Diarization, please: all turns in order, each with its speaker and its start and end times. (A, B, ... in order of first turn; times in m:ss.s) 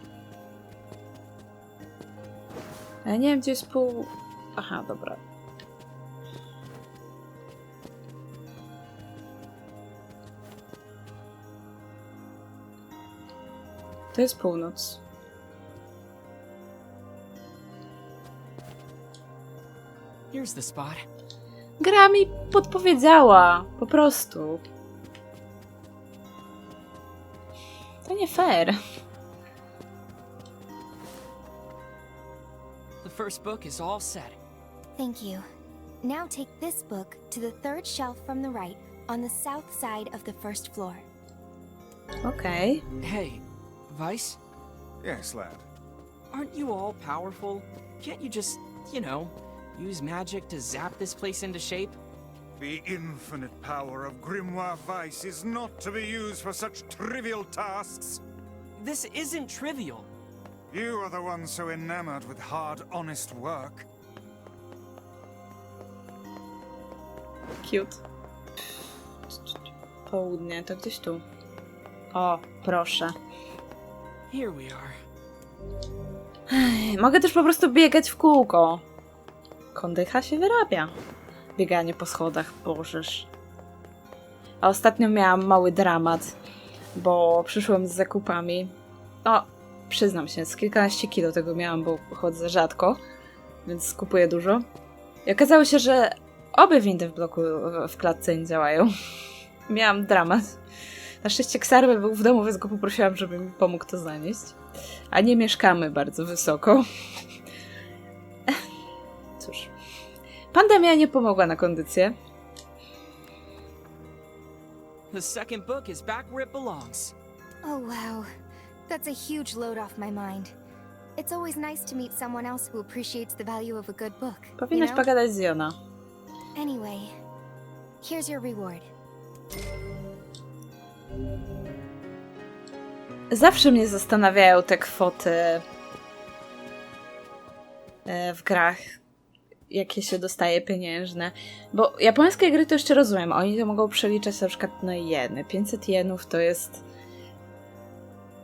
0:03.0-0:05.2 A
0:14.1-0:15.0 A
0:20.3-0:21.1 B
0:21.8-0:24.6 A
0:28.0-0:28.8 A
0:33.0-0:34.4 B
0:35.0-0:35.4 C
0:36.0-0:41.1 C
0:42.2-0:42.8 A
0:43.0-0:44.4 B
0:45.0-0:45.7 D
0:46.3-0:52.0 B
0:52.6-0:58.2 D
0:58.8-1:00.1 B
1:00.7-1:03.9 D
1:07.6-1:08.0 A
1:10.1-1:11.2 A
1:12.1-1:13.2 A
1:14.3-1:15.0 B
1:16.5-1:18.8 A
1:19.7-1:20.9 A
1:21.6-1:23.3 A
1:24.6-1:26.3 A
1:27.0-1:28.7 A
1:29.2-1:33.0 A
1:33.6-1:34.6 A
1:35.3-1:38.9 A
1:39.7-1:40.6 A
1:41.2-1:44.6 A
1:45.1-1:46.8 A
1:49.4-1:49.7 A
1:50.5-1:52.2 A
1:55.1-1:57.1 B
1:57.6-1:58.3 C
1:58.9-2:00.6 C
2:01.2-2:05.1 C
2:04.6-2:05.8 A
2:06.6-2:07.2 C
2:08.0-2:08.9 C
2:13.3-2:15.6 A
2:18.1-2:19.0 A
2:19.7-2:26.8 A